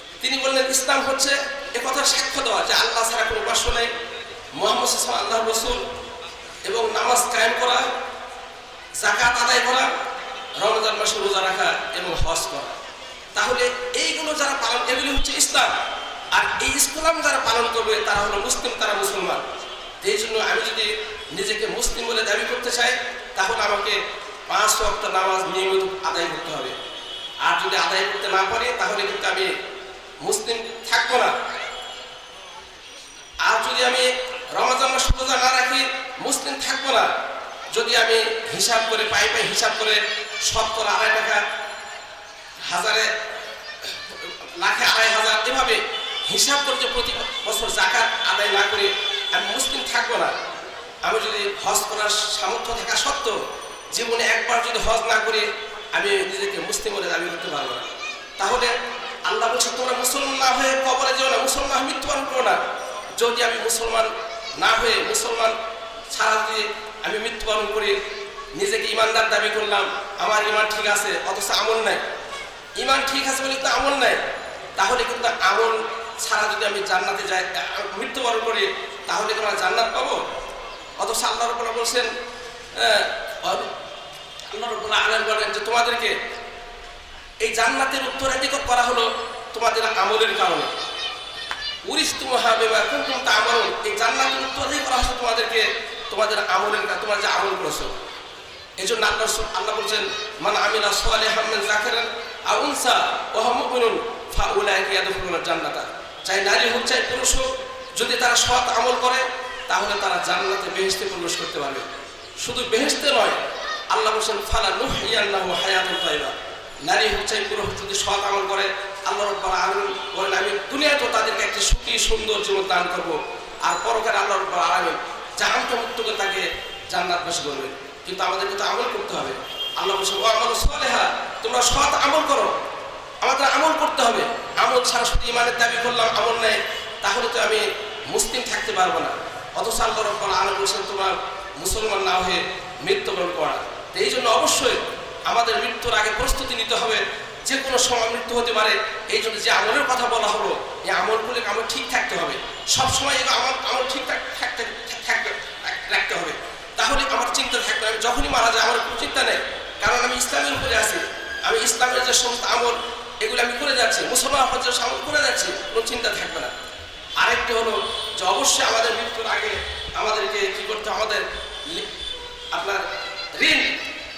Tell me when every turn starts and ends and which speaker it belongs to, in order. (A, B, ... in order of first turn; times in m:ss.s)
0:00.2-0:03.9 A
0:04.6-0:05.8 A
0:06.6-0:07.9 A
0:09.0-0:09.9 A
0:10.6-0:12.8 A
0:13.4-0:15.7 A
0:16.3-0:19.4 A
0:20.0-0:26.8 A
0:27.4-0:29.5 A
0:30.2-0:31.3 A
0:33.4-0:37.1 A
0:37.7-0:41.4 A
0:42.6-0:43.1 A
0:43.8-0:50.3 A
0:51.0-0:53.4 A
0:53.9-0:57.9 A
0:58.4-0:58.8 A
0:59.3-1:02.6 A
1:03.2-1:05.6 A
1:06.1-1:08.0 A
1:08.6-1:12.0 A
1:12.8-1:14.2 A
1:14.8-1:20.2 A
1:21.0-1:22.1 A
1:22.7-1:23.7 A
1:24.5-1:26.2 A
1:27.4-1:30.7 A
1:31.8-1:38.0 A
1:38.8-1:51.9 A
1:52.4-1:53.4 A
1:53.9-2:12.5 A
2:13.2-2:46.5 A
2:47.2-2:51.9 A
2:52.5-2:52.8 A
2:53.4-2:53.8 A